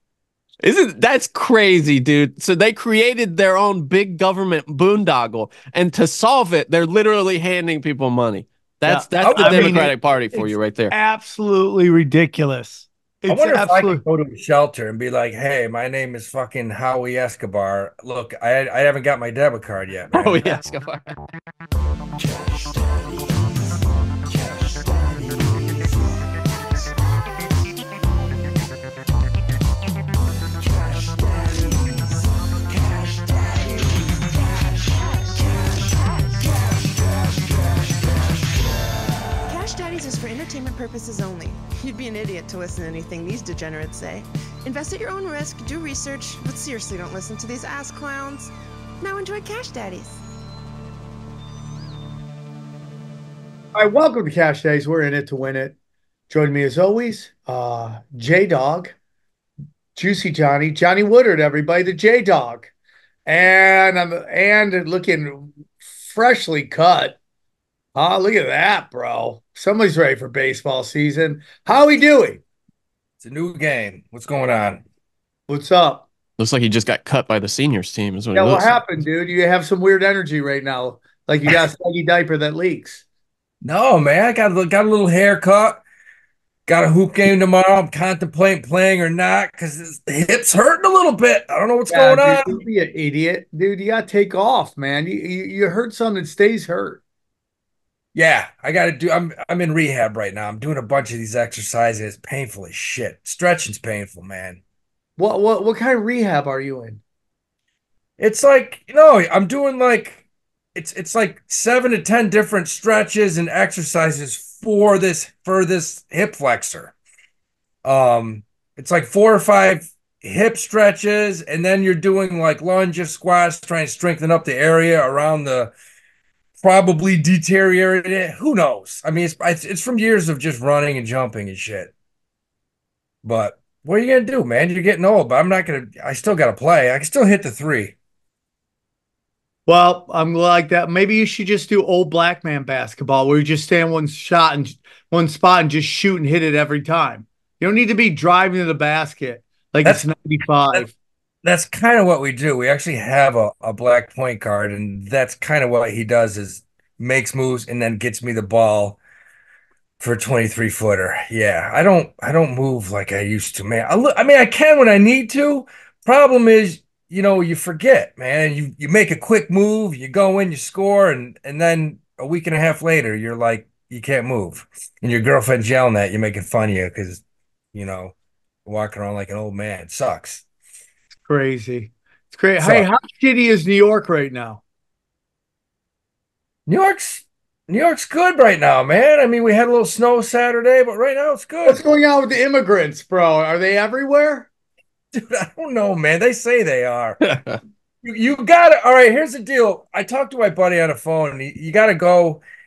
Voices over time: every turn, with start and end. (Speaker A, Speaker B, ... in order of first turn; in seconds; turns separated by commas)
Speaker A: 0.6-10.9, Speaker B: 8.8-14.0, Speaker C: 9.2-9.9, Speaker C: 13.3-20.6, Speaker A: 20.1-21.1, Speaker D: 30.6-32.3, Speaker D: 33.3-37.9, Speaker D: 39.5-50.2, Speaker B: 53.7-55.7, Speaker B: 56.3-58.9, Speaker B: 60.0-62.7, Speaker B: 63.2-67.2, Speaker B: 68.0-72.4, Speaker C: 73.2-74.8, Speaker B: 75.5-76.1, Speaker A: 76.4-78.8, Speaker B: 78.3-83.0, Speaker C: 83.6-85.8, Speaker C: 86.7-92.6, Speaker B: 91.9-97.0, Speaker C: 98.1-104.6, Speaker B: 105.2-107.0, Speaker C: 108.2-110.2, Speaker C: 110.7-116.9, Speaker C: 117.8-125.7, Speaker C: 126.6-131.9, Speaker C: 133.2-137.9, Speaker B: 139.7-150.9, Speaker C: 151.4-159.0, Speaker C: 160.0-177.2, Speaker C: 177.7-178.1, Speaker C: 178.7-180.4, Speaker B: 181.2-184.6, Speaker C: 182.6-182.9, Speaker C: 186.7-191.8, Speaker B: 191.7-194.5, Speaker C: 195.1-197.2, Speaker A: 197.2-197.6, Speaker C: 198.0-202.4